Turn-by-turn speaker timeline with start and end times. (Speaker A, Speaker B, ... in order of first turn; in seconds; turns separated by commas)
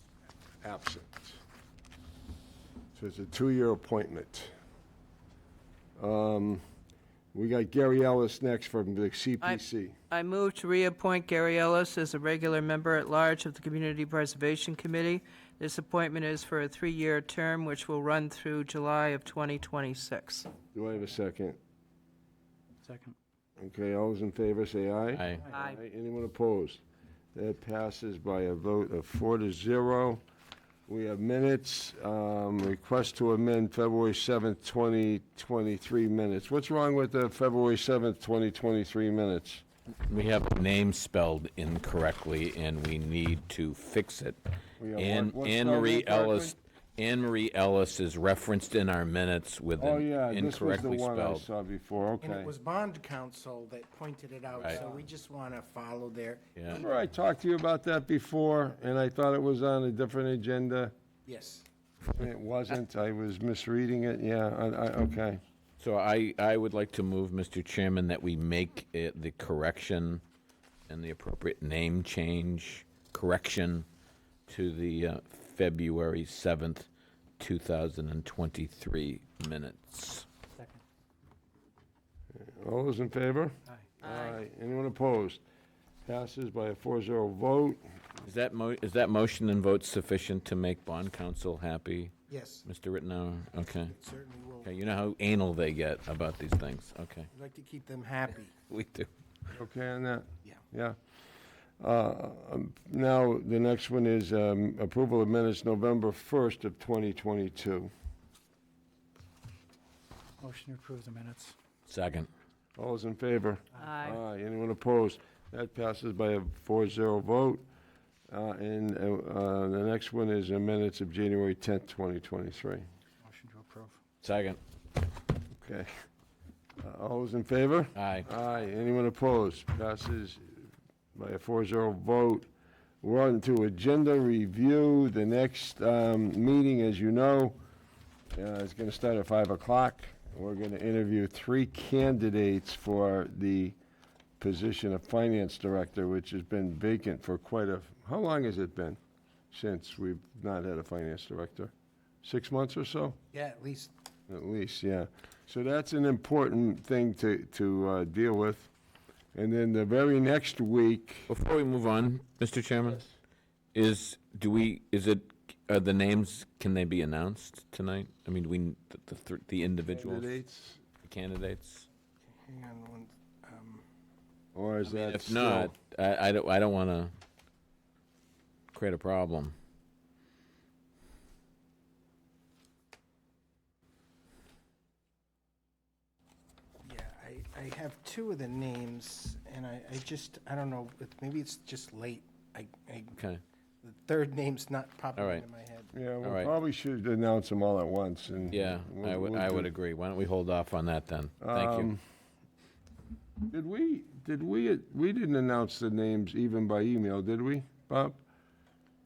Speaker A: 0.6-1.4, Speaker A: 3.0-4.5, Speaker A: 6.0-6.6, Speaker A: 7.3-10.0, Speaker B: 9.4-20.5, Speaker A: 20.7-21.6, Speaker C: 22.8-23.2, Speaker A: 23.6-26.8, Speaker D: 25.1-25.5, Speaker A: 27.4-30.2, Speaker A: 30.9-39.6, Speaker D: 40.1-44.4, Speaker A: 44.8-46.5, Speaker D: 45.0-51.5, Speaker A: 49.8-52.5, Speaker E: 52.2-57.0, Speaker D: 54.5-54.8, Speaker D: 56.6-56.8, Speaker A: 56.7-60.9, Speaker E: 61.3-61.7, Speaker A: 62.1-65.4, Speaker D: 65.8-70.2, Speaker D: 70.9-73.9, Speaker D: 74.5-76.9, Speaker D: 77.4-80.3, Speaker A: 82.3-85.4, Speaker B: 84.0-84.4, Speaker A: 86.1-87.8, Speaker D: 88.2-92.1, Speaker E: 92.3-92.7, Speaker D: 92.7-94.0, Speaker E: 93.8-94.7, Speaker D: 94.6-97.3, Speaker E: 97.3-98.5, Speaker D: 98.7-99.1, Speaker A: 99.5-101.0, Speaker A: 101.8-107.9, Speaker C: 110.4-111.6, Speaker D: 111.9-112.3, Speaker A: 112.8-117.6, Speaker B: 113.9-114.2, Speaker A: 118.3-122.8, Speaker C: 123.2-124.0, Speaker D: 124.2-124.6, Speaker A: 125.5-125.9, Speaker A: 126.8-132.5, Speaker D: 128.0-128.3, Speaker A: 133.0-137.6, Speaker A: 138.3-143.8, Speaker A: 144.4-149.0, Speaker A: 149.5-151.7, Speaker A: 152.2-153.2, Speaker E: 153.3-153.9, Speaker A: 154.3-158.7, Speaker A: 159.3-161.3, Speaker D: 161.3-163.1, Speaker D: 163.7-170.3, Speaker A: 169.9-170.8, Speaker D: 171.0-171.9, Speaker E: 172.4-173.8, Speaker A: 174.6-175.7, Speaker D: 174.8-177.1, Speaker D: 178.7-179.5, Speaker E: 186.8-193.2, Speaker D: 193.2-193.4, Speaker E: 193.8-195.9, Speaker D: 195.2-195.4, Speaker A: 195.9-199.7, Speaker D: 196.2-196.5, Speaker D: 198.5-201.9, Speaker A: 201.4-202.0, Speaker A: 203.5-208.2